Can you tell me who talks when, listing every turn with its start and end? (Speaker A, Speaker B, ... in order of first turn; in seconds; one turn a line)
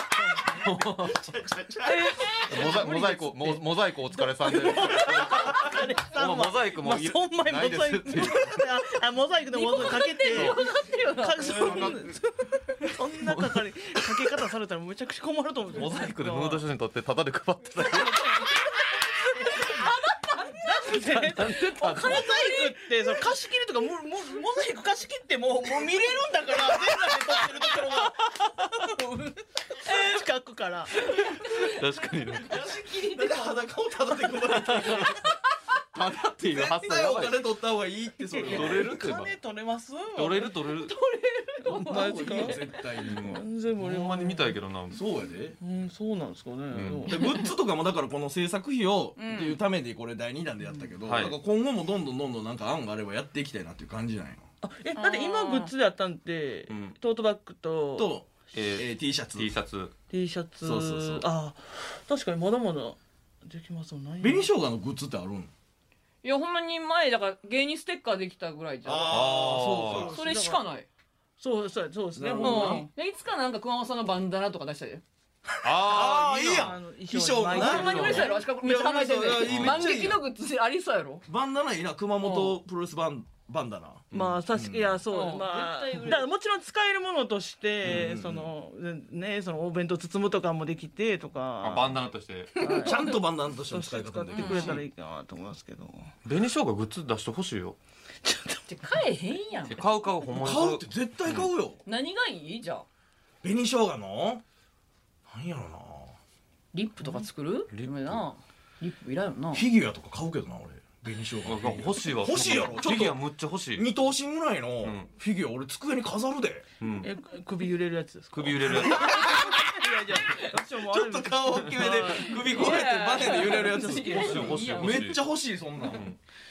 Speaker A: 0.1-0.7
Speaker B: 0.5-1.4
Speaker C: 1.2-2.3
Speaker D: 1.9-3.2
Speaker A: 2.1-3.6
Speaker B: 2.5-8.6
Speaker A: 4.1-16.6
Speaker D: 9.5-11.9
Speaker B: 9.7-10.6
Speaker B: 11.4-12.1
Speaker B: 13.2-14.4
Speaker B: 15.7-18.5
Speaker A: 17.9-18.5
Speaker A: 19.1-31.7
Speaker D: 19.1-22.9
Speaker B: 20.9-22.3
Speaker C: 27.3-28.1
Speaker D: 31.1-31.7
Speaker B: 31.4-32.5
Speaker A: 32.5-33.0
Speaker D: 32.5-33.6
Speaker C: 32.5-35.2
Speaker B: 34.5-35.2
Speaker B: 35.9-37.4
Speaker C: 36.4-39.2
Speaker A: 38.3-40.6
Speaker B: 38.4-39.3
Speaker B: 40.1-41.0
Speaker D: 40.7-42.7
Speaker C: 41.8-43.4
Speaker A: 41.8-44.6
Speaker B: 43.0-45.0
Speaker C: 44.9-45.6
Speaker A: 45.6-47.4
Speaker B: 46.7-47.0
Speaker C: 46.8-54.5
Speaker D: 47.1-47.5
Speaker D: 49.2-49.6
Speaker B: 51.0-51.4
Speaker A: 54.6-58.1
Speaker D: 55.0-55.7
Speaker B: 56.7-57.0
Speaker C: 58.0-59.5
Speaker B: 58.5-59.9
Speaker A: 60.1-64.5
Speaker C: 60.6-61.3
Speaker C: 64.2-65.5
Speaker D: 66.2-69.3
Speaker C: 68.8-70.2
Speaker B: 69.1-70.1
Speaker A: 69.8-70.6
Speaker D: 70.1-70.9
Speaker A: 71.4-72.9
Speaker C: 72.2-72.9
Speaker D: 72.4-75.0
Speaker C: 75.5-80.2
Speaker B: 75.6-76.8
Speaker A: 76.5-78.4
Speaker D: 77.5-81.2
Speaker B: 79.4-80.0
Speaker C: 81.3-85.0
Speaker D: 82.2-82.6
Speaker B: 84.1-84.4
Speaker A: 84.1-96.1
Speaker D: 85.1-86.3
Speaker C: 87.8-88.5
Speaker B: 91.6-92.8
Speaker D: 92.6-93.2
Speaker C: 92.8-94.8
Speaker D: 94.3-94.8
Speaker B: 94.5-94.8
Speaker B: 96.2-97.8
Speaker A: 98.2-98.6
Speaker D: 98.7-99.8
Speaker B: 99.7-101.5
Speaker C: 100.3-101.8
Speaker D: 101.8-102.9
Speaker C: 103.4-104.4
Speaker C: 105.3-106.2
Speaker D: 106.7-109.7
Speaker B: 107.7-108.2
Speaker C: 109.5-113.2
Speaker B: 111.4-113.9
Speaker C: 113.8-116.7
Speaker B: 114.8-115.1
Speaker B: 116.8-117.1
Speaker A: 117.0-124.6
Speaker B: 118.3-119.3
Speaker C: 118.7-126.2
Speaker D: 121.8-125.1
Speaker B: 124.0-125.3
Speaker B: 125.8-126.2